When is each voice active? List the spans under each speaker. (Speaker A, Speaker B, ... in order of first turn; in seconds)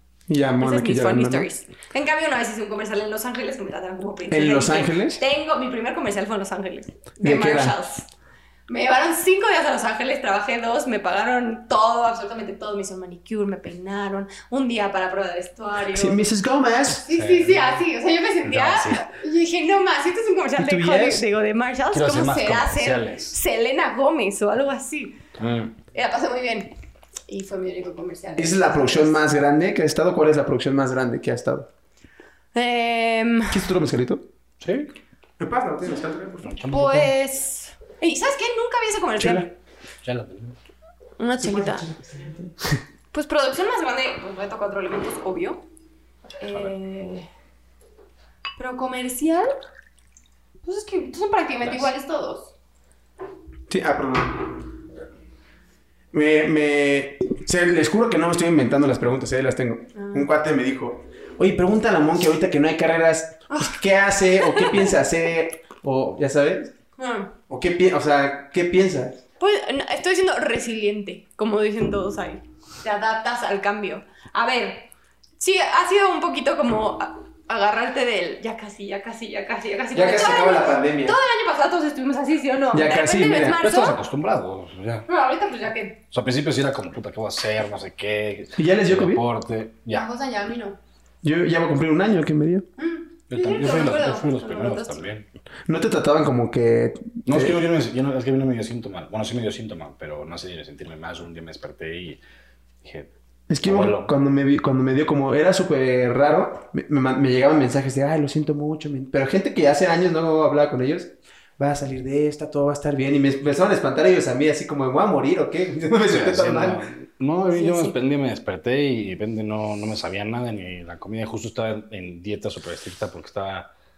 Speaker A: 0.3-1.5, 4.3-5.2, 7.2-7.8, 15.9-17.1, 20.6-21.2, 28.4-31.7, 33.5-34.2, 35.4-36.5, 41.4-42.8, 53.7-54.7, 56.1-66.7, 67.5-69.2, 79.9-81.2, 82.7-83.6, 88.6-89.2, 91.2-92.7, 95.7-97.6, 103.5-116.8
Speaker B: 0.6-8.1, 8.7-16.2, 17.1-25.2, 25.9-26.7, 27.3-29.3, 32.5-33.7, 36.7-39.5, 41.2-41.9, 43.1-45.6, 46.4-47.3, 48.6-49.5, 50.6-52.5, 59.9-60.3, 63.5-63.8, 64.3-64.9, 67.0-67.3, 69.4-84.0, 85.1-86.0, 89.9-90.8, 92.8-95.0, 117.5-118.0
Speaker C: 17.1-17.8, 18.4-19.1, 21.9-23.4, 25.4-25.8, 34.6-34.9, 36.4-37.1, 39.2-39.5, 40.0-40.6, 83.6-85.1, 86.1-90.1, 93.3-95.3, 97.3-102.2, 102.8-103.1, 103.6-104.1, 116.1-123.7